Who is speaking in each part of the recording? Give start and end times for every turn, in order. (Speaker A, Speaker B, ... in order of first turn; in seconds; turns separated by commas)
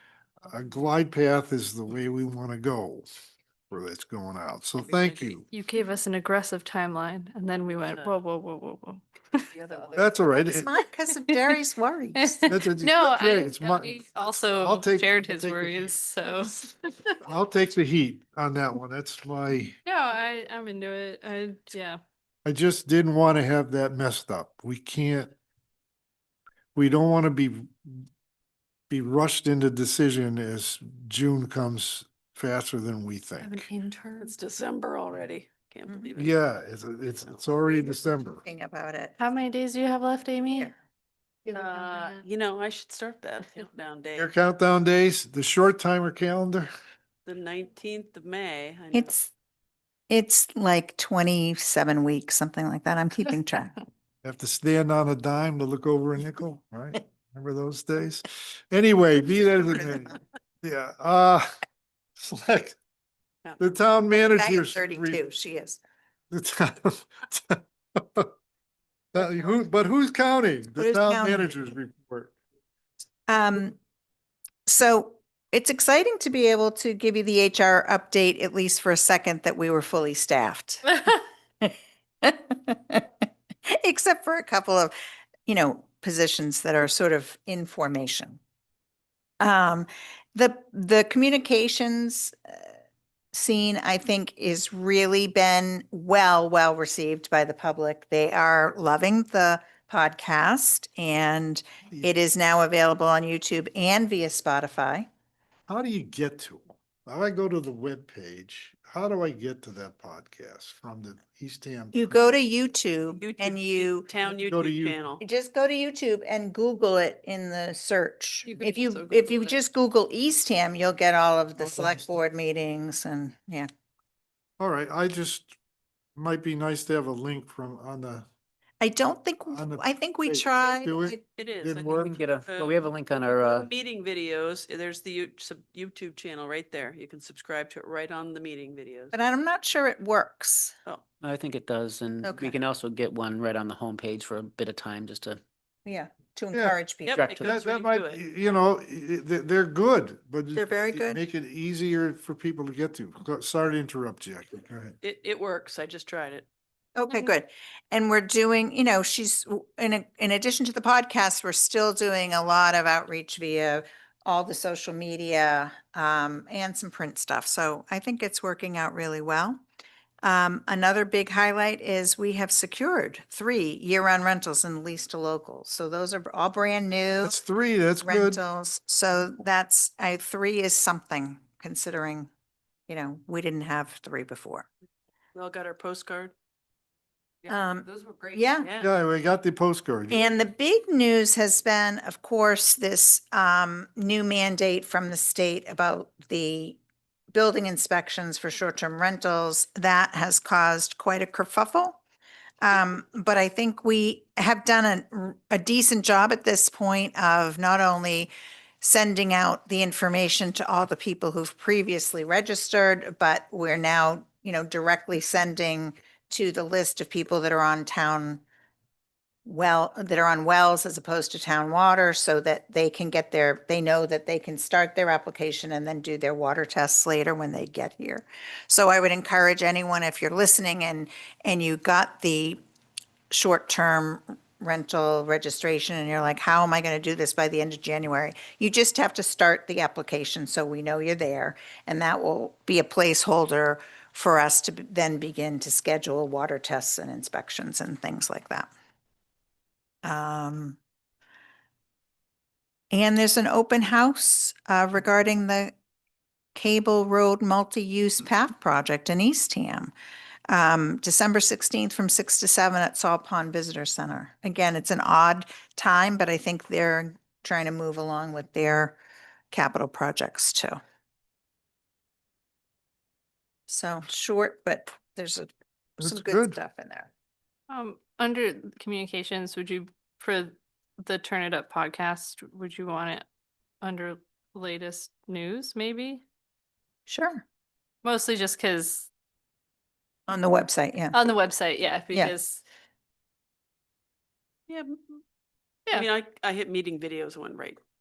Speaker A: 0.4-3.1, Speaker A: 3.7-5.5, Speaker B: 4.8-5.4, Speaker C: 5.5-9.5, Speaker B: 7.8-8.2, Speaker B: 9.5-10.1, Speaker A: 9.9-10.7, Speaker D: 10.5-12.4, Speaker C: 11.3-11.6, Speaker C: 12.1-17.2, Speaker A: 12.5-14.0, Speaker A: 14.5-15.9, Speaker A: 17.2-19.8, Speaker C: 19.8-22.0, Speaker A: 22.4-25.4, Speaker A: 26.8-28.1, Speaker A: 28.9-33.6, Speaker C: 33.4-34.3, Speaker B: 34.2-36.4, Speaker A: 36.2-38.4, Speaker D: 38.4-39.2, Speaker C: 39.2-40.7, Speaker C: 41.5-42.2, Speaker B: 41.5-44.3, Speaker A: 44.2-46.7, Speaker B: 47.3-49.2, Speaker D: 48.9-49.3, Speaker D: 50.1-53.8, Speaker A: 54.2-61.5, Speaker A: 62.2-62.8, Speaker A: 63.6-65.2, Speaker D: 64.2-65.8, Speaker A: 66.3-68.3, Speaker A: 69.1-72.3, Speaker D: 70.8-71.5, Speaker D: 73.3-73.8, Speaker D: 74.7-80.9, Speaker D: 81.6-84.9, Speaker D: 85.5-88.4, Speaker D: 89.4-92.6, Speaker D: 93.3-105.1, Speaker A: 105.7-112.2, Speaker D: 111.9-114.1, Speaker B: 113.2-115.2, Speaker A: 114.3-115.0, Speaker D: 115.2-123.7, Speaker C: 118.5-119.5, Speaker A: 121.6-122.0, Speaker A: 124.6-125.6, Speaker A: 126.2-128.3, Speaker D: 128.8-131.2, Speaker A: 129.5-132.2, Speaker B: 131.4-139.1, Speaker E: 131.9-133.7, Speaker D: 139.1-140.7, Speaker E: 141.2-145.4, Speaker D: 142.2-142.6, Speaker D: 145.8-147.2, Speaker B: 147.0-148.3, Speaker E: 147.1-147.6, Speaker A: 147.4-155.0, Speaker D: 150.6-151.2, Speaker B: 155.0-156.5, Speaker D: 156.9-169.6, Speaker D: 170.2-177.4, Speaker A: 177.2-178.4, Speaker D: 178.0-182.3, Speaker D: 182.9-184.7, Speaker B: 185.3-186.3, Speaker D: 187.5-188.7, Speaker B: 188.1-188.9, Speaker A: 188.8-190.2, Speaker D: 190.1-196.8, Speaker D: 197.3-202.0, Speaker D: 202.6-218.4, Speaker D: 219.5-232.6, Speaker D: 233.3-248.7, Speaker D: 250.0-250.8, Speaker D: 252.9-255.7, Speaker D: 256.5-259.9, Speaker D: 260.5-269.0, Speaker D: 269.5-270.8, Speaker D: 273.7-277.1, Speaker A: 276.0-276.5, Speaker C: 277.7-283.2, Speaker C: 283.8-286.2, Speaker D: 287.1-287.4, Speaker C: 288.0-289.1, Speaker D: 290.3-291.1, Speaker C: 291.1-292.6, Speaker B: 294.7-295.2, Speaker B: 295.9-297.8